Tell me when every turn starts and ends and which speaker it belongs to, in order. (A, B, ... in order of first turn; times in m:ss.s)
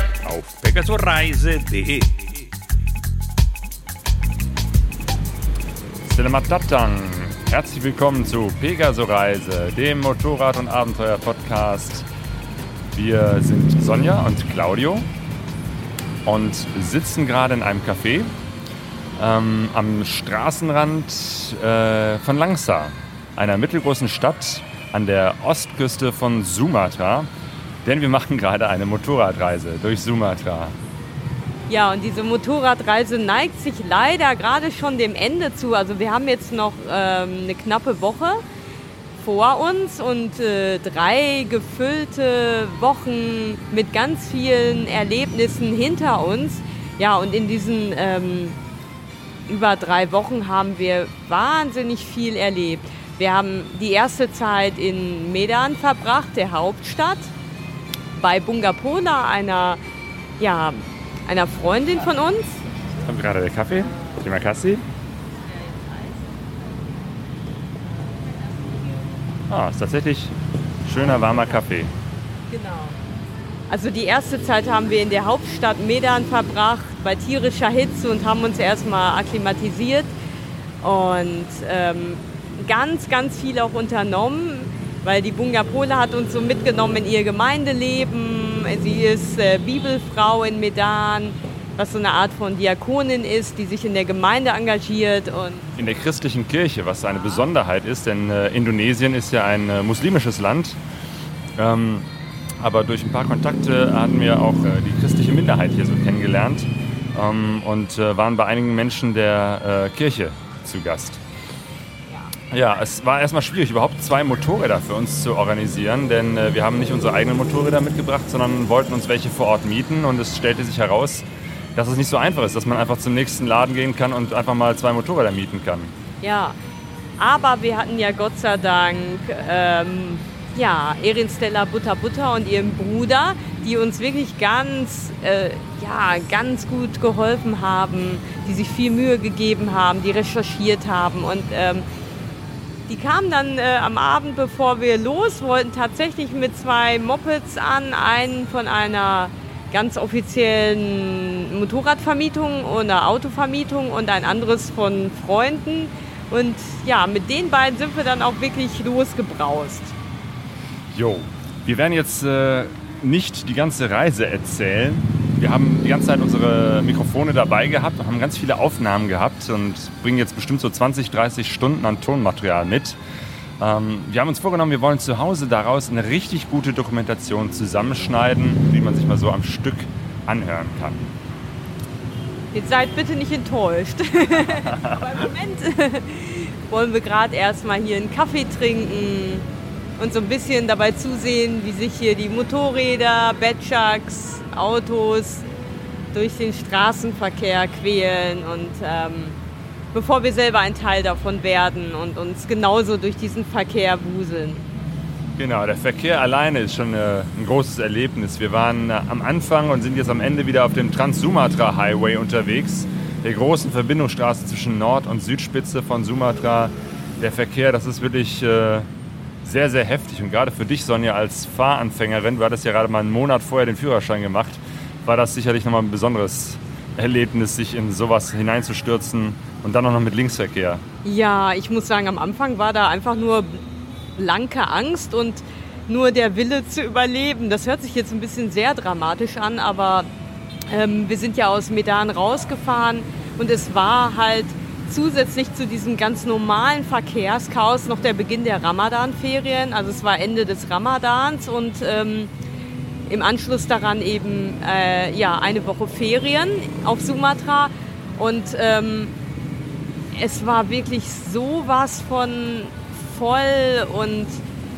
0:00.2-0:02.2 A
0:06.0-0:12.1 B
0:12.9-0:15.1 B
0:16.3-0:18.3 B
0:19.2-0:27.3 B
0:27.8-0:30.8 B
0:31.7-0:38.4 C
0:39.2-0:48.6 C
0:49.5-0:57.3 C
0:58.1-0:59.8 C
1:00.4-1:02.6 C
1:03.0-1:04.8 B
1:03.7-1:04.3 C
1:05.5-1:06.5 C
1:08.0-1:09.2 C
1:09.5-1:11.9 B
1:12.5-1:13.0 C
1:13.7-1:20.2 C
1:20.8-1:36.0 C
1:35.8-1:40.8 B
1:41.6-1:42.1 B
1:42.6-1:51.2 B
1:52.1-1:52.4 C
1:52.5-2:05.9 B
2:06.2-2:06.6 C
2:07.2-2:21.8 C
2:22.9-2:40.0 C
2:40.9-2:53.0 B
2:53.6-3:01.1 B
3:02.5-3:09.5 C
3:04.5-3:05.0 B
3:10.0-3:15.5 C
3:16.1-3:19.4 C
3:19.9-3:24.6 C
3:25.4-3:38.9 B
3:39.4-3:50.8 B
3:51.0-3:53.6 C
3:54.2-4:00.1 C
4:00.7-4:12.3 C
4:13.1-4:19.1 C
4:20.1-4:24.4 C